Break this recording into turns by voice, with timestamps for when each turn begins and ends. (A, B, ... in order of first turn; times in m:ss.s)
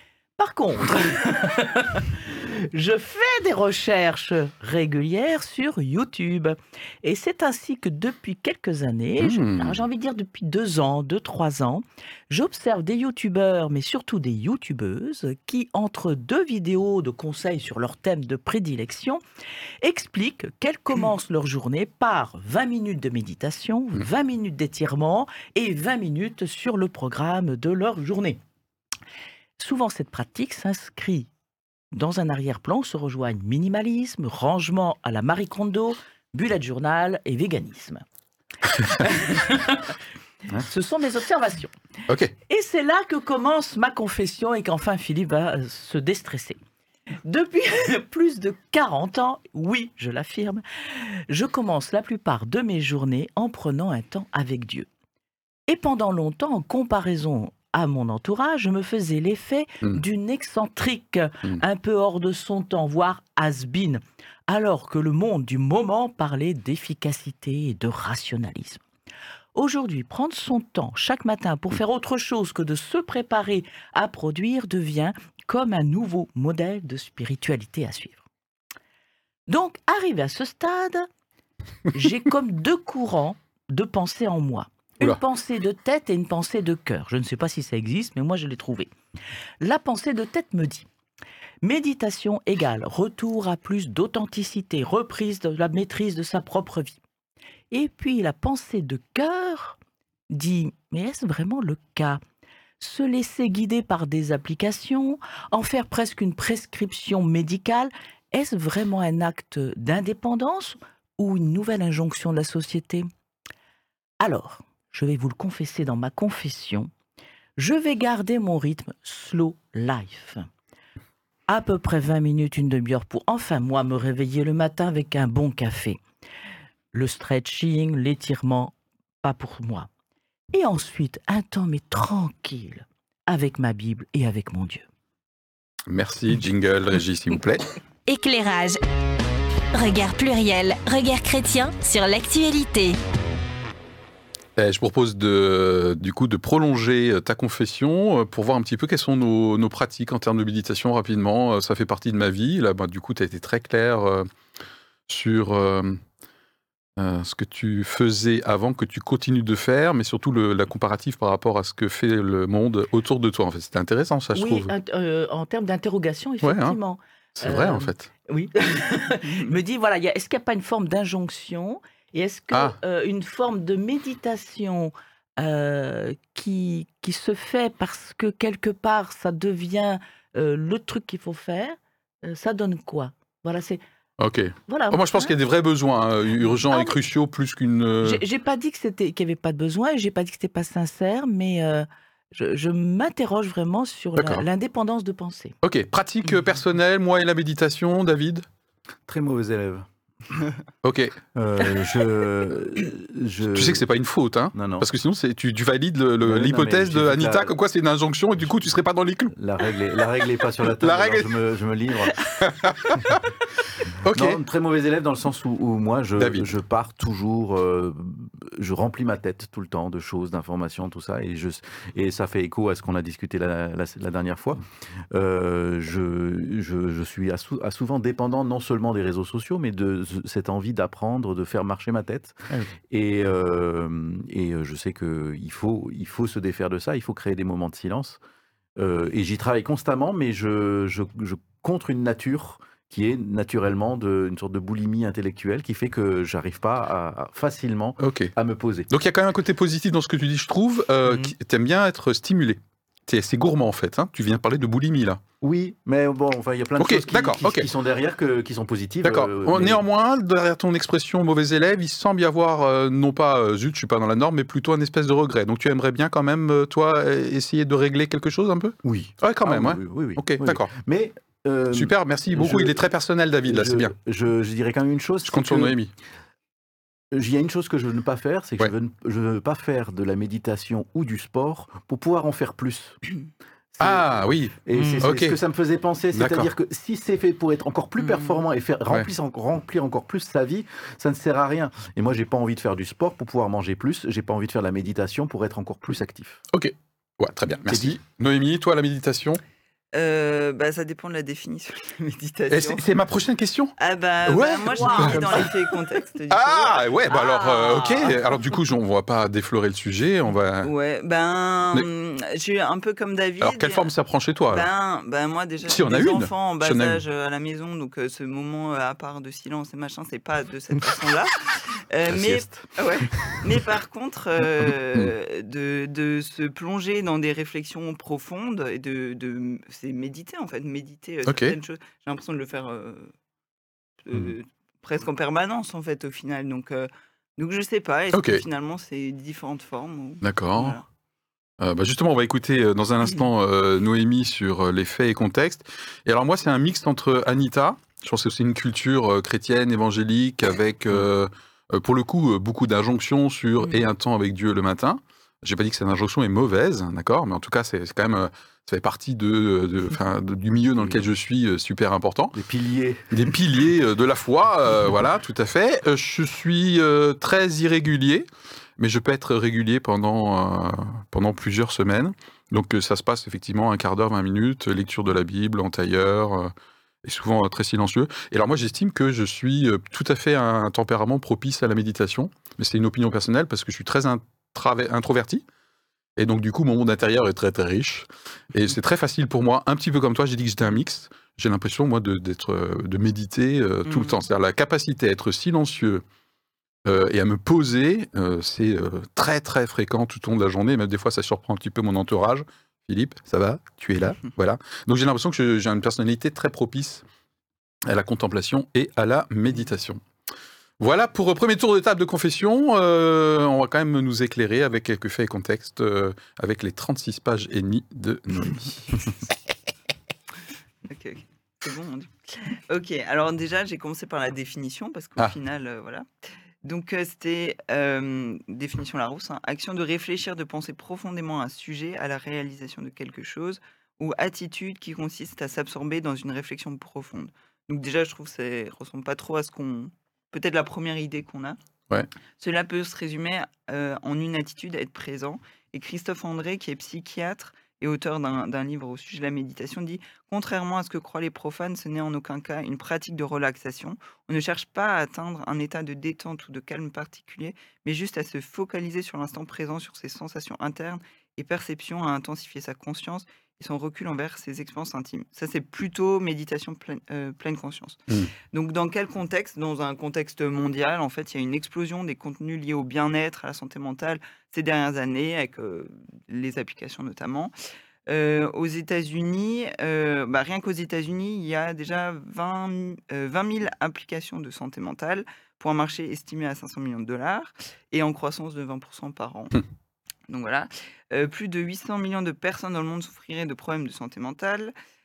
0:00.4-0:19.2 A
0:09.2-0:09.8 B
0:19.8-0:28.4 A
0:29.6-0:31.3 A
0:31.9-0:38.0 A
0:38.9-0:39.9 A
0:40.5-0:41.7 A
0:42.1-0:42.3 B
0:42.5-0:46.6 A
0:47.2-0:54.9 A
0:55.7-1:08.8 A
1:09.5-1:18.2 A
1:19.5-1:21.1 A
1:21.9-1:28.9 A
1:29.6-1:30.9 A
1:31.6-1:37.0 A
1:37.7-1:39.8 A
1:40.3-1:42.2 A
1:42.8-1:53.1 A
1:54.2-1:56.9 A
1:57.6-2:00.5 A
2:01.5-2:06.0 A
2:06.9-2:09.9 A
2:10.5-2:14.8 A
2:15.9-2:17.7 B
2:18.1-2:18.8 C
2:19.7-2:23.0 C
2:24.6-2:34.3 B
2:35.1-2:36.0 B
2:37.0-2:44.7 B
2:44.3-3:03.8 A
2:46.4-2:46.8 B
2:47.4-2:48.1 B
3:04.2-3:08.2 B
3:04.7-3:05.3 A
3:06.7-3:07.0 A
3:08.0-3:15.6 A
3:14.2-3:14.4 B
3:15.6-3:18.4 B
3:19.1-3:20.5 D
3:20.8-3:21.2 B
3:21.3-3:23.8 D
3:23.5-3:29.3 B
3:24.5-3:24.9 D
3:26.2-3:27.5 D
3:29.3-3:32.2 D
3:30.8-3:31.3 B
3:32.4-3:33.2 B
3:33.8-3:34.4 B
3:34.1-3:58.2 D
3:36.2-3:36.4 B
3:58.8-4:08.9 D
4:08.0-4:08.3 B
4:08.9-4:15.2 B
4:15.4-4:19.8 D
4:16.8-4:17.7 B
4:19.0-4:30.7 B
4:28.8-4:32.9 D
4:31.7-4:33.9 B
4:33.4-4:35.8 D
4:35.3-4:35.9 B
4:37.1-4:43.0 D
4:43.7-4:56.4 D
4:43.8-4:45.4 B
4:44.7-4:45.1 A
4:46.1-4:46.5 B
4:48.0-4:48.3 E
4:56.5-4:59.4 B
4:57.7-4:58.0 D
4:59.9-5:02.8 E
5:02.5-5:03.7 B
5:03.8-5:07.7 E
5:04.2-5:05.6 B
5:04.7-5:05.4 A
5:06.3-5:10.7 B
5:07.4-5:08.0 A
5:10.6-5:13.9 E
5:13.4-5:14.7 B
5:14.5-5:33.1 E
5:15.6-5:17.0 B
5:22.1-5:22.4 B
5:31.2-5:31.6 B
5:34.0-5:40.8 E
5:38.1-5:38.4 B
5:40.2-5:40.8 B
5:41.6-6:02.3 B
6:00.8-6:01.0 D
6:02.3-6:03.3 D
6:03.1-6:08.3 B
6:08.8-6:16.5 B
6:17.0-6:25.4 B
6:26.2-6:36.0 B
6:33.8-6:34.2 E
6:36.8-6:47.0 B
6:47.9-6:50.0 B
6:50.8-6:59.2 B
7:00.8-7:06.0 E
7:06.6-7:21.6 E
7:22.4-7:48.0 E
7:48.5-7:57.5 E
7:58.1-8:09.6 E
8:10.3-8:14.7 E